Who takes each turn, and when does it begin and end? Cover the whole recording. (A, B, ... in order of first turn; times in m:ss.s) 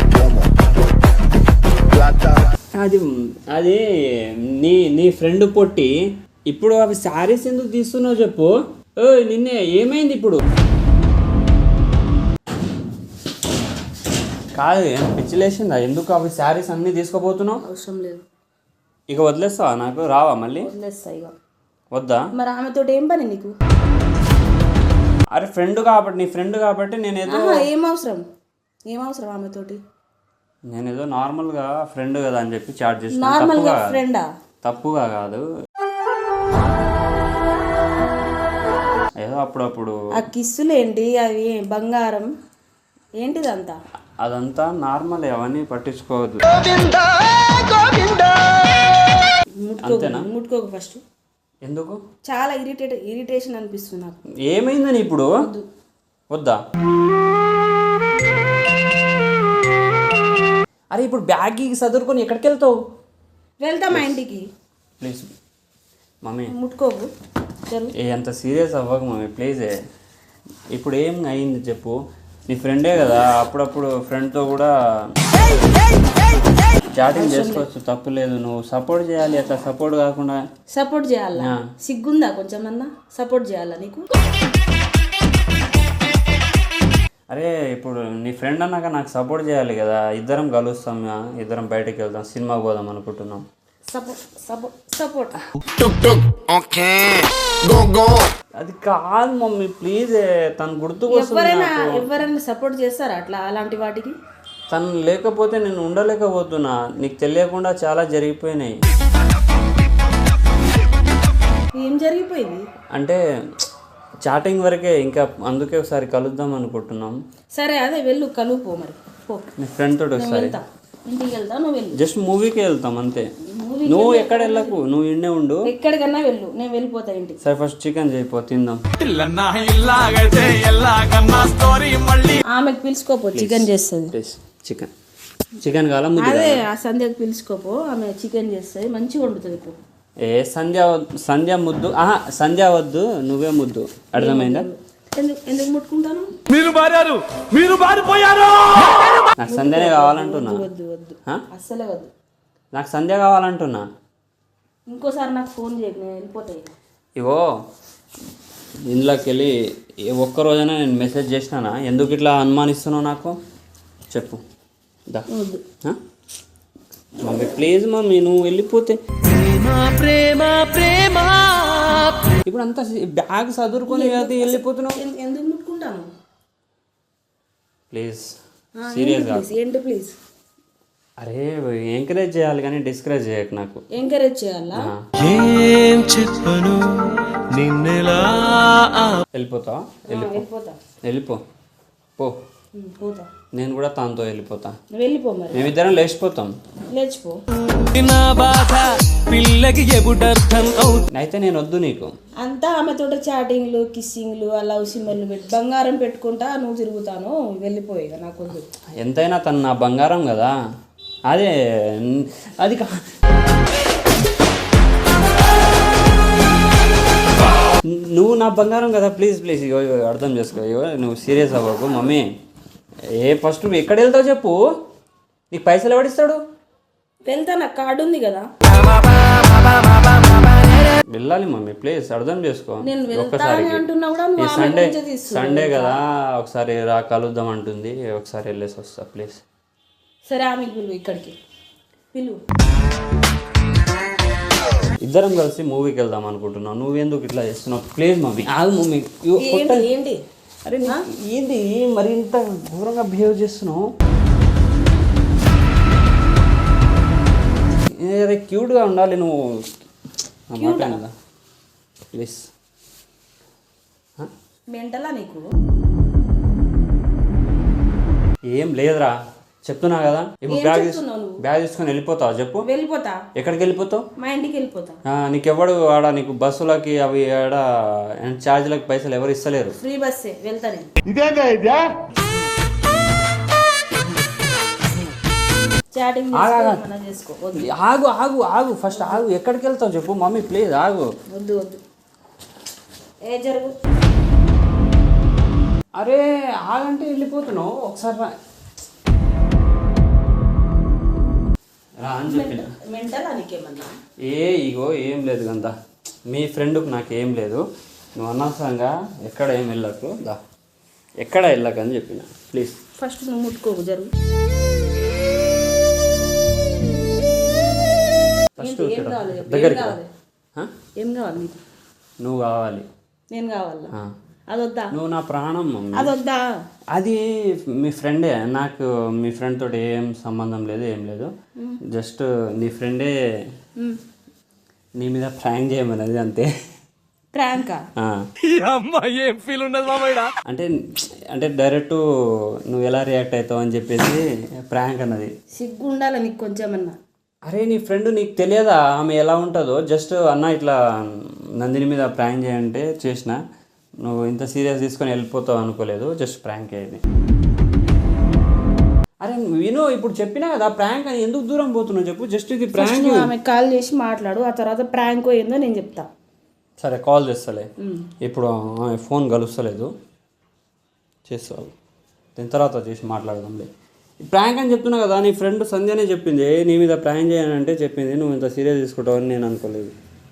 0:02.8-0:05.9 A
0:06.5-0:10.4 A
0:14.6-0:17.6 A
0:17.6-0:18.2 B
0:19.1-0:20.7 A
0:20.6-0:21.3 B
0:21.9-0:22.2 A
0:22.4-0:23.6 B
0:25.3-0:27.7 A
0:27.3-0:28.2 B
0:28.9-0:29.8 B
0:30.7-0:34.0 A
0:33.1-0:34.3 B
0:34.6-0:35.4 A
0:39.2-0:40.0 A
0:40.1-0:42.3 B
0:43.2-0:43.8 B
0:44.2-0:46.6 A
0:49.6-0:51.0 B
0:49.8-0:50.3 A
0:51.6-0:52.0 A
0:52.3-0:54.2 B
0:54.5-0:55.3 A
0:56.3-0:56.6 A
1:00.9-1:02.8 A
1:03.6-1:04.5 B
1:03.9-1:04.2 A
1:05.0-1:05.3 A
1:06.2-1:06.5 A
1:06.5-1:07.1 B
1:08.0-1:09.7 A
1:10.7-1:12.0 A
1:12.5-1:14.7 A
1:16.9-1:20.4 A
1:17.1-1:17.7 B
1:20.7-1:24.1 B
1:21.4-1:21.6 A
1:27.3-1:33.4 A
1:33.9-1:35.4 B
1:38.6-1:42.2 A
1:41.1-1:44.2 B
1:44.7-1:48.7 A
1:51.8-1:52.6 B
1:52.9-1:53.2 A
1:54.2-1:57.2 A
1:57.5-1:59.5 B
1:59.6-2:00.6 A
2:00.2-2:02.0 B
2:02.0-2:03.2 A
2:03.5-2:04.8 B
2:03.9-2:05.7 A
2:05.6-2:07.4 B
2:07.4-2:08.8 A
2:09.0-2:12.4 C
2:12.5-2:14.1 B
2:13.4-2:14.9 A
2:15.6-2:16.6 A
2:16.2-2:19.8 B
2:20.2-2:24.7 A
2:24.2-2:26.3 B
2:26.5-2:29.3 C
2:29.4-2:30.7 A
2:29.4-2:32.1 B
2:32.7-2:33.9 A
2:34.9-2:36.7 B
2:37.2-2:37.5 A
2:38.9-2:39.5 A
2:40.1-2:43.4 A
2:44.1-2:44.4 A
2:45.3-2:45.6 B
2:47.2-2:49.0 A
2:49.3-2:52.4 C
2:52.4-2:55.0 A
2:53.9-2:56.1 B
2:57.9-2:58.3 A
2:58.8-3:00.2 B
2:58.9-2:59.5 A
3:01.2-3:03.8 A
3:04.0-3:04.9 B
3:04.8-3:05.1 A
3:05.2-3:09.2 C
3:09.3-3:10.4 A
3:10.1-3:10.8 B
3:11.0-3:11.4 A
3:12.8-3:13.3 B
3:13.6-3:14.8 A
3:14.9-3:15.7 B
3:15.5-3:16.5 A
3:16.9-3:17.4 B
3:17.7-3:21.1 C
3:21.1-3:22.1 A
3:22.4-3:28.7 B
3:29.0-3:30.5 A
3:31.3-3:33.0 A
3:37.9-3:42.3 A
3:43.1-3:44.6 A
3:45.5-3:46.4 A
3:47.3-3:48.5 B
3:51.1-3:53.8 A
3:52.8-3:56.0 B
3:54.4-3:59.4 A
4:00.3-4:01.4 B
4:02.1-4:02.4 B
4:05.0-4:09.9 A
4:09.4-4:10.2 B
4:10.7-4:13.9 A
4:18.0-4:19.7 A
4:20.5-4:21.1 A
4:20.6-4:21.0 B
4:22.1-4:22.5 A
4:24.7-4:25.5 B
4:28.5-4:32.7 A
4:30.5-4:31.4 B
4:32.6-4:33.2 B
4:33.4-4:34.0 A
4:34.2-4:35.0 B
4:35.1-4:37.6 A
4:38.2-4:39.8 A
4:39.8-4:40.9 B
4:41.1-4:42.0 C
4:45.9-4:47.7 B
4:46.3-4:46.8 A
4:47.6-4:51.1 A
4:48.9-4:49.3 B
4:51.3-4:51.8 B
4:53.3-4:53.7 B
4:56.0-4:58.3 A
5:02.0-5:02.7 A
5:02.3-5:04.0 B
5:04.2-5:05.7 A
5:06.3-5:07.6 A
5:08.2-5:10.4 A
5:11.2-5:12.8 A
5:13.0-5:14.1 B
5:18.6-5:20.0 A
5:18.6-5:20.1 B
5:21.0-5:21.6 B
5:22.2-5:22.9 A
5:23.3-5:23.9 B
5:24.5-5:24.9 B
5:24.9-5:26.1 A
5:25.9-5:26.6 B
5:26.9-5:31.3 A
5:31.9-5:33.1 A
5:35.0-5:36.5 A
5:37.3-5:37.8 B
5:38.0-5:38.3 A
5:38.4-5:40.3 C
5:41.3-5:42.0 A
5:42.7-5:45.3 A
5:45.6-5:47.0 B
5:47.5-5:53.4 A
5:54.0-5:57.0 A
5:59.2-6:03.3 A
6:02.7-6:06.1 B
6:06.8-6:07.7 A
6:07.8-6:08.1 B
6:08.2-6:09.9 A
6:11.3-6:11.7 A
6:12.4-6:13.7 A
6:14.2-6:19.9 A